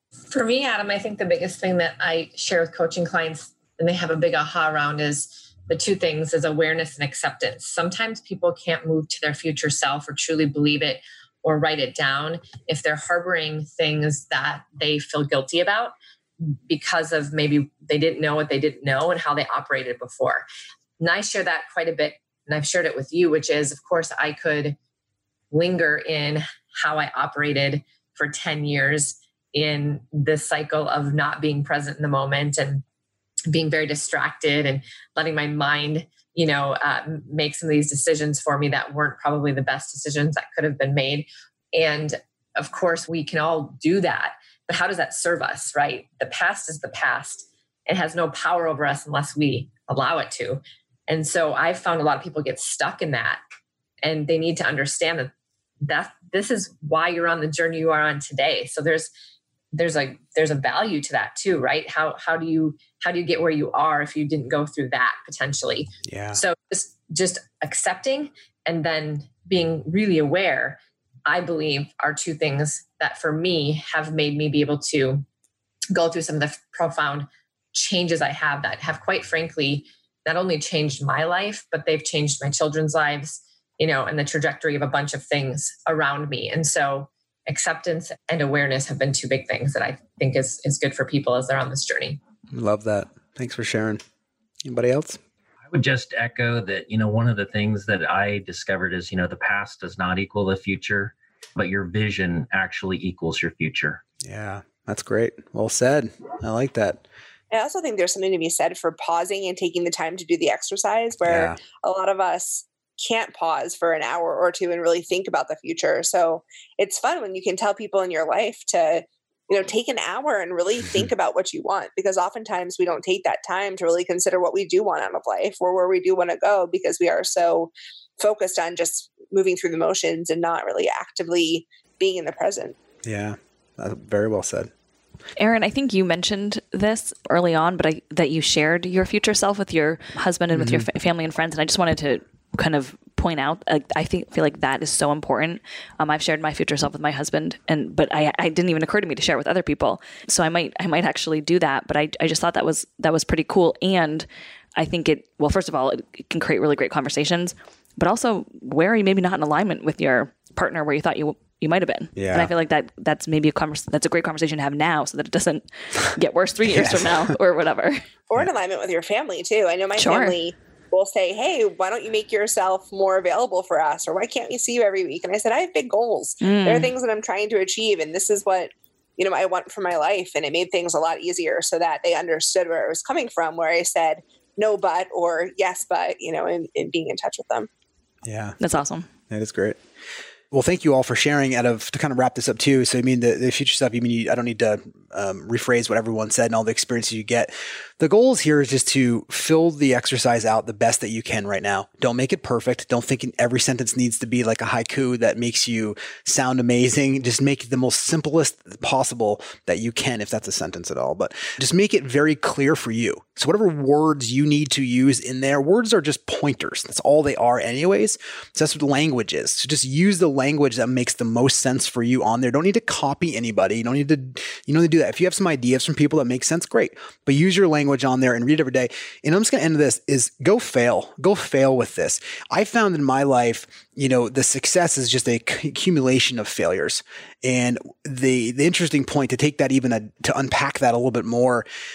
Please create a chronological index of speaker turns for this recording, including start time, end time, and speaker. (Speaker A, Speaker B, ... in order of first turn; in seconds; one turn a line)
Speaker A: 0.3-20.4
Speaker A: 21.0-24.8
Speaker A: 25.5-32.8
Speaker A: 33.5-53.4
Speaker A: 54.0-55.3
Speaker A: 55.8-59.1
Speaker A: 59.7-75.2
Speaker B: 66.0-66.4
Speaker A: 75.9-92.2
Speaker B: 92.5-94.0
Speaker B: 94.6-95.2
Speaker C: 95.7-104.0
Speaker B: 104.2-107.0
Speaker D: 107.5-132.8
Speaker B: 111.2-111.6
Speaker B: 133.0-134.7
Speaker E: 135.4-154.2
Speaker B: 140.5-140.9
Speaker E: 154.8-168.0
Speaker B: 162.1-162.5
Speaker B: 166.7-167.3
Speaker D: 168.3-187.7
Speaker E: 169.9-170.3
Speaker E: 176.4-176.9
Speaker B: 188.2-188.6
Speaker E: 188.6-189.1
Speaker B: 189.3-189.8
Speaker B: 190.5-241.7